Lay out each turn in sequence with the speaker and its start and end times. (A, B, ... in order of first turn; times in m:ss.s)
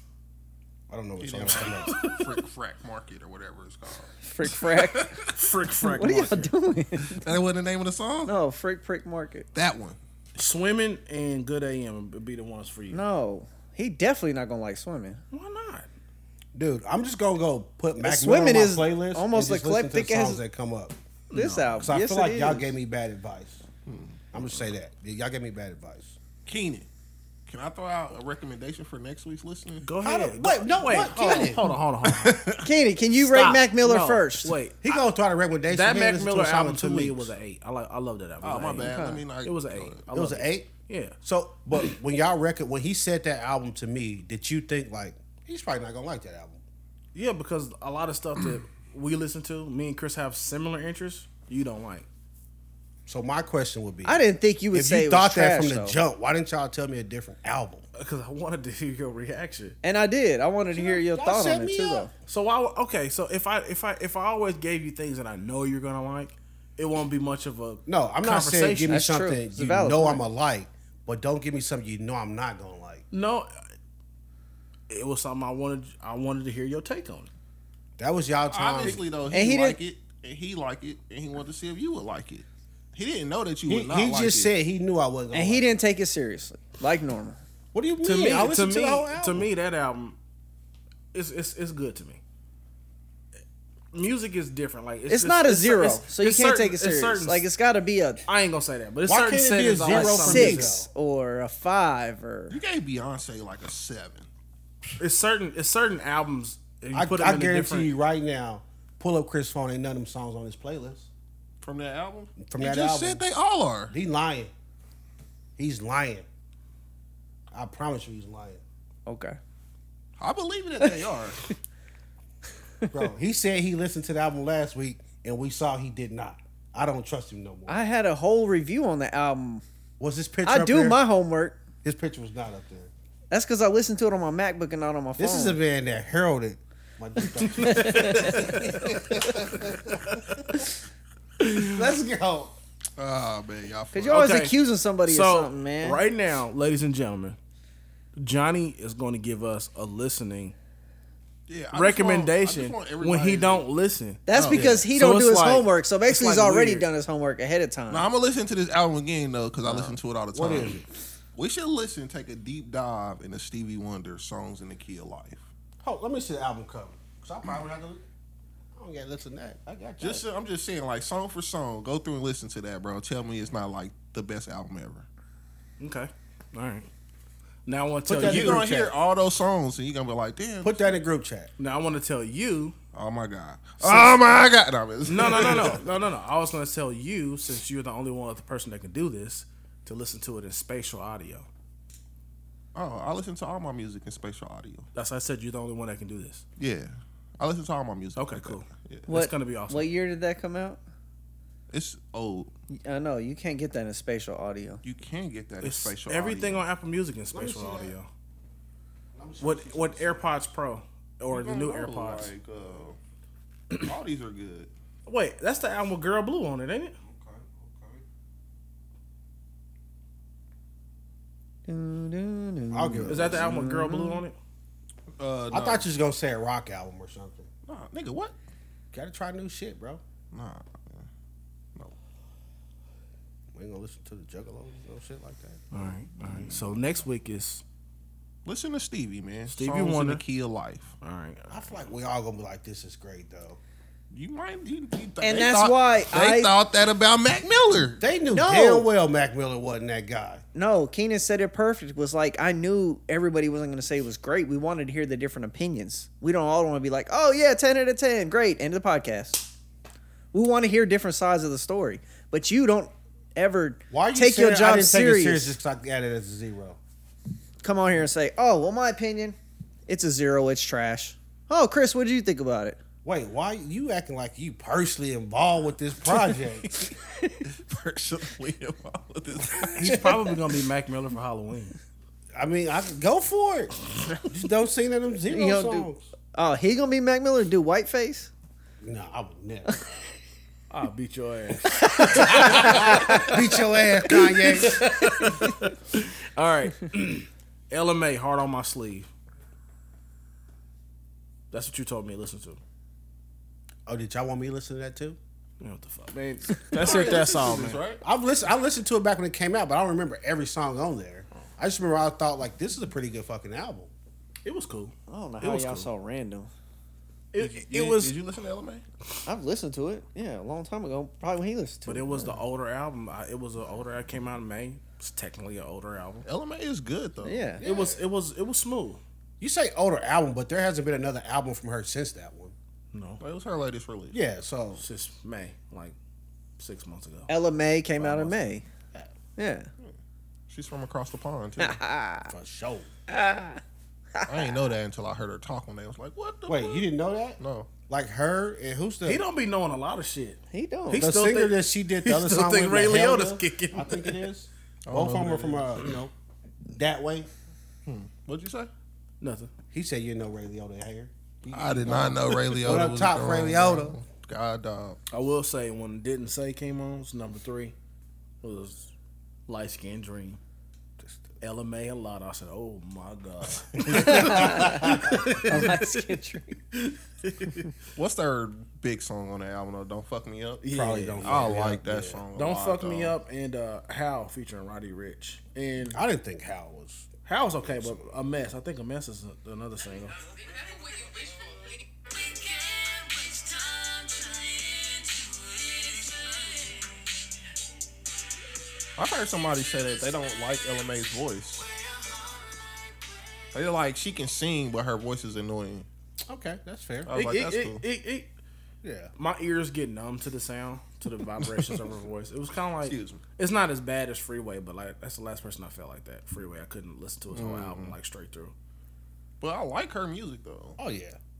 0:00.9-0:02.0 A
0:01.2-0:05.3 B
0:01.8-0:02.4 C
0:04.2-0:05.2 D
0:05.3-0:06.5 C
0:05.8-0:07.2 D
0:07.1-0:08.3 B
0:08.2-0:09.4 D
0:09.5-0:10.0 B
0:10.4-0:13.0 C
0:12.9-0:15.2 D
0:15.3-0:15.9 C
0:16.5-0:20.9 A
0:18.0-0:20.4 D
0:21.3-0:21.8 C
0:21.3-0:22.7 D
0:21.8-0:23.6 A
0:23.8-0:24.5 B
0:24.3-0:26.2 A
0:26.4-0:26.9 B
0:27.5-0:29.8 B
0:29.8-0:32.4 C
0:30.0-0:31.6 A
0:32.1-0:32.6 B
0:32.6-0:34.5 D
0:33.2-0:34.8 C
0:34.8-0:37.3 A
0:35.7-0:41.2 C
0:38.4-0:40.0 B
0:38.8-0:39.2 D
0:40.1-0:40.7 A
0:41.2-0:46.6 A
0:47.1-0:52.1 C
0:53.1-0:54.2 A
0:54.0-0:56.0 D
0:54.7-0:57.8 A
0:57.9-0:59.8 C
0:59.8-1:02.1 D
1:00.7-1:02.1 A
1:02.3-1:09.0 C
1:07.8-1:13.0 A
1:08.9-1:10.2 D
1:13.1-1:13.5 C
1:14.9-1:17.3 C
1:18.0-1:19.0 A
1:18.5-1:24.5 B
1:19.3-1:19.8 D
1:23.7-1:25.7 A
1:25.3-1:27.4 D
1:27.7-1:29.5 A
1:28.0-1:30.2 C
1:31.1-1:32.2 C
1:33.9-1:37.4 C
1:35.1-1:38.2 D
1:38.2-1:40.8 C
1:39.1-1:40.9 A
1:39.9-1:42.6 D
1:42.5-1:44.2 B
1:45.0-1:47.9 C
1:46.9-1:51.1 A
1:51.6-1:53.9 B
1:52.4-1:53.3 A
1:53.9-1:54.5 A
1:55.6-1:56.2 A
1:57.5-1:58.6 A
1:59.0-1:59.4 D
2:00.2-2:01.4 B
2:02.9-2:07.8 A
2:07.7-2:09.6 D
2:10.0-2:11.0 A
2:10.4-2:11.6 D
2:11.8-2:12.9 A
2:13.3-2:15.6 D
2:15.2-2:20.2 A
2:17.4-2:19.2 D
2:17.6-2:18.6 C
2:18.6-2:19.8 B
2:21.4-2:21.9 C
2:21.7-2:22.5 A
2:23.0-2:24.4 B
2:23.9-2:26.0 D
2:24.1-2:27.4 C
2:28.2-2:30.5 C
2:31.5-2:33.6 B
2:31.7-2:36.9 C
2:34.3-2:38.1 D
2:34.3-2:34.8 B
2:34.5-2:34.8 A
2:37.9-2:40.8 B
2:39.7-2:40.8 A
2:41.3-2:45.4 B
2:45.8-2:48.0 A
2:48.7-2:50.2 A
2:50.0-2:55.1 B
2:55.8-2:56.9 C
2:57.6-2:58.6 C
2:58.1-2:58.9 A
2:58.2-3:00.9 B
3:00.6-3:01.5 A
3:01.6-3:02.7 C
3:02.9-3:05.8 B
3:03.8-3:04.1 A
3:05.0-3:11.5 C
3:05.3-3:05.7 A
3:12.7-3:14.9 B
3:14.9-3:16.4 C
3:16.6-3:19.1 B
3:18.2-3:19.9 C
3:19.1-3:20.8 D
3:21.7-3:22.5 B
3:22.8-3:24.8 D
3:24.8-3:26.6 B
3:25.6-3:28.1 C
3:27.3-3:27.9 A
3:29.1-3:30.3 A
3:29.4-3:32.3 C
3:31.3-3:33.0 B
3:33.8-3:34.7 B
3:35.0-3:37.0 C
3:37.0-3:38.0 A
3:41.6-3:44.2 D
3:42.7-3:43.5 A
3:43.1-3:44.4 C
3:45.2-3:45.9 B
3:45.5-3:47.5 A
3:47.6-3:48.3 B
3:48.9-3:50.0 A
3:50.3-3:51.1 B
3:53.5-3:55.9 A
3:55.7-3:57.6 C
3:58.4-4:00.9 B
3:59.5-4:00.2 C
4:01.0-4:01.7 C
4:01.5-4:03.6 A
4:04.1-4:08.0 B
4:05.2-4:06.5 D
4:08.0-4:10.4 A
4:08.3-4:08.9 D
4:10.5-4:19.5 D
4:20.3-4:25.6 D
4:23.9-4:26.8 A
4:27.6-4:32.8 D
4:33.0-4:36.9 A
4:36.9-4:37.3 D
4:37.4-4:40.1 B
4:39.8-4:41.8 C
4:39.8-4:40.1 D
4:42.3-4:46.0 A
4:45.3-4:48.3 D
4:48.8-4:49.8 A
4:50.7-4:53.4 C
4:51.7-4:53.4 D
4:52.1-4:54.8 A
4:54.3-4:59.1 C
5:01.5-5:02.6 C
5:03.8-5:05.2 A
5:05.6-5:07.8 C
5:06.8-5:08.0 B
5:08.0-5:13.9 A
5:14.4-5:15.9 C
5:15.1-5:16.5 D
5:17.3-5:18.2 C
5:17.4-5:18.8 B
5:19.2-5:22.4 D
5:21.8-5:26.2 C
5:26.2-5:27.5 B
5:27.2-5:27.6 D
5:27.6-5:28.0 A
5:27.6-5:29.0 C
5:29.4-5:32.5 A
5:32.9-5:33.2 C
5:33.2-5:34.2 B
5:34.1-5:34.8 A
5:34.8-5:36.0 C
5:36.6-5:37.3 C
5:37.3-5:38.6 D
5:38.0-5:38.4 C
5:39.4-5:39.7 D
5:40.5-5:41.8 B
5:41.6-5:42.3 D
5:42.3-5:42.9 A
5:43.1-5:43.6 D
5:44.1-5:44.6 D
5:44.3-5:46.8 B
5:46.5-5:49.2 A
5:47.4-5:47.7 B
5:49.0-5:54.3 C
5:50.5-5:51.1 D
5:50.9-5:56.1 A
5:54.8-5:55.9 B
5:56.7-5:57.3 A
5:57.8-5:58.7 B
5:59.2-5:59.5 C
5:59.7-6:04.0 A
6:01.5-6:05.0 B
6:05.1-6:07.7 C
6:08.4-6:08.9 C
6:09.5-6:10.4 C
6:11.0-6:11.3 A
6:11.4-6:15.9 C
6:13.8-6:15.2 A
6:14.0-6:16.6 D
6:16.7-6:17.7 C
6:18.0-6:20.6 B
6:20.6-6:21.4 C
6:20.7-6:22.2 A
6:21.2-6:23.1 B
6:22.3-6:26.0 C
6:25.9-6:28.0 A
6:27.2-6:30.1 C
6:39.0-6:41.6 B
6:43.5-6:45.8 B
6:46.3-6:47.1 A
6:47.0-6:47.8 B
6:47.1-6:48.3 C
6:48.8-6:49.1 A
6:49.2-6:58.5 C
6:51.4-6:51.7 B
6:52.8-6:53.2 B
6:57.3-6:58.0 B
6:59.4-7:00.8 B
7:00.8-7:01.2 A